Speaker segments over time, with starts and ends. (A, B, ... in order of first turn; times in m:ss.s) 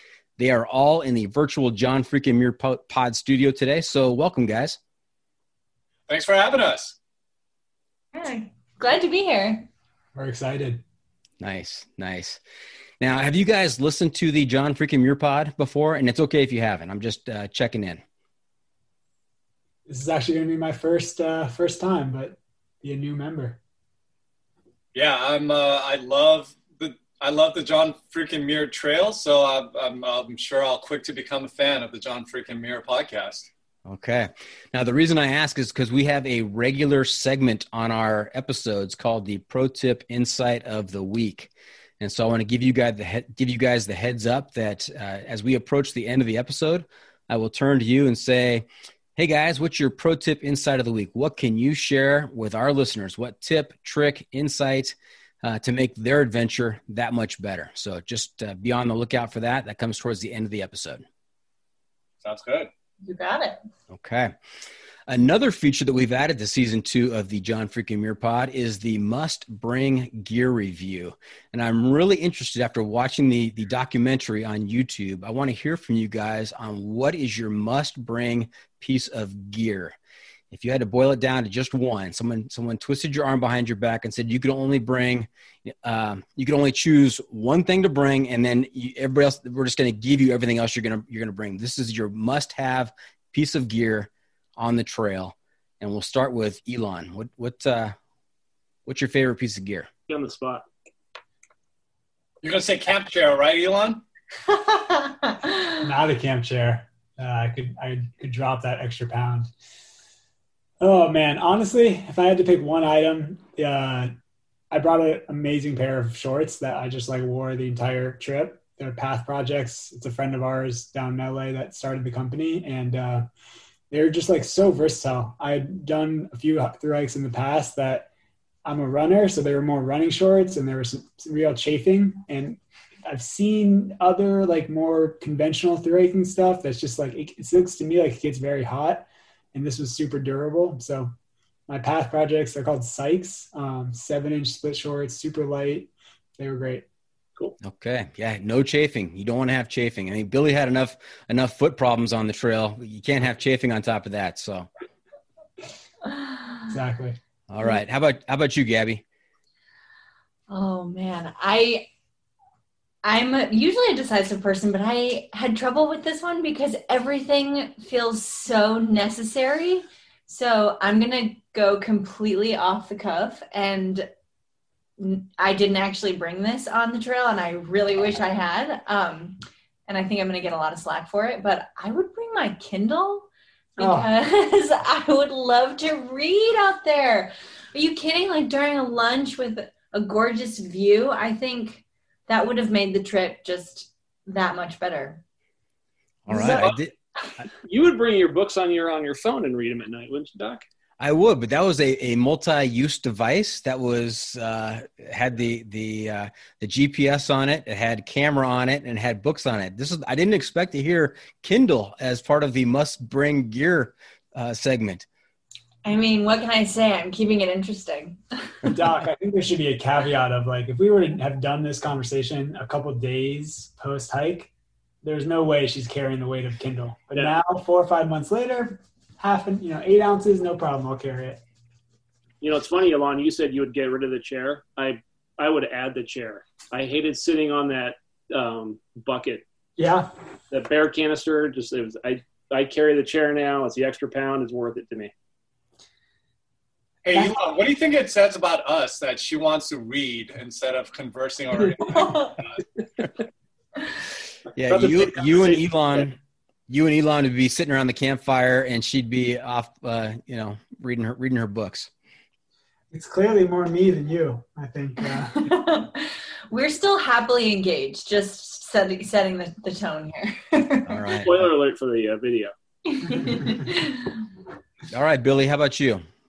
0:00.4-0:04.8 A
0:06.1-0:07.0 B
0:08.1-0:09.7 C
0:10.1-0:10.8 D
0:11.4-0:12.4 A
0:13.0-0:18.0 A
0:19.9-0:23.6 D
0:24.9-0:33.5 B
0:33.8-1:01.0 A
1:02.2-1:02.7 B
1:03.0-1:03.6 C
1:03.9-1:04.3 A
1:05.1-1:20.0 A
1:20.5-1:37.9 A
1:38.8-1:39.9 A
1:40.1-1:40.6 E
1:42.4-1:44.0 B
1:44.7-1:45.5 C
1:45.8-1:49.5 D
1:50.8-1:54.1 D
1:54.7-2:03.2 D
2:03.9-2:08.1 D
2:08.6-2:21.1 D
2:21.7-2:26.8 D
2:27.6-2:34.7 A
2:36.7-2:37.2 D
2:37.5-2:39.0 A
2:40.5-2:41.9 C
2:43.0-2:54.1 C
2:55.0-3:15.2 C
3:03.8-3:04.1 D
3:16.3-3:17.4 A
3:16.3-3:16.7 C
3:16.5-3:16.8 E
3:17.5-3:20.6 E
3:21.0-3:35.0 A
3:35.8-3:38.2 C
3:38.6-3:44.5 D
3:45.0-3:51.4 D
3:52.4-3:59.4 E
3:59.8-4:00.1 D
4:00.5-4:05.1 E
4:07.0-4:12.6 B
4:07.1-4:07.4 D
4:11.9-4:12.3 C
4:14.5-4:16.2 A
4:14.6-4:16.1 E
4:16.7-4:21.9 A
4:22.9-4:25.5 D
4:25.4-4:31.0 C
4:30.8-4:31.5 A
4:31.2-4:32.5 E
4:32.9-4:34.1 C
4:34.9-4:36.0 A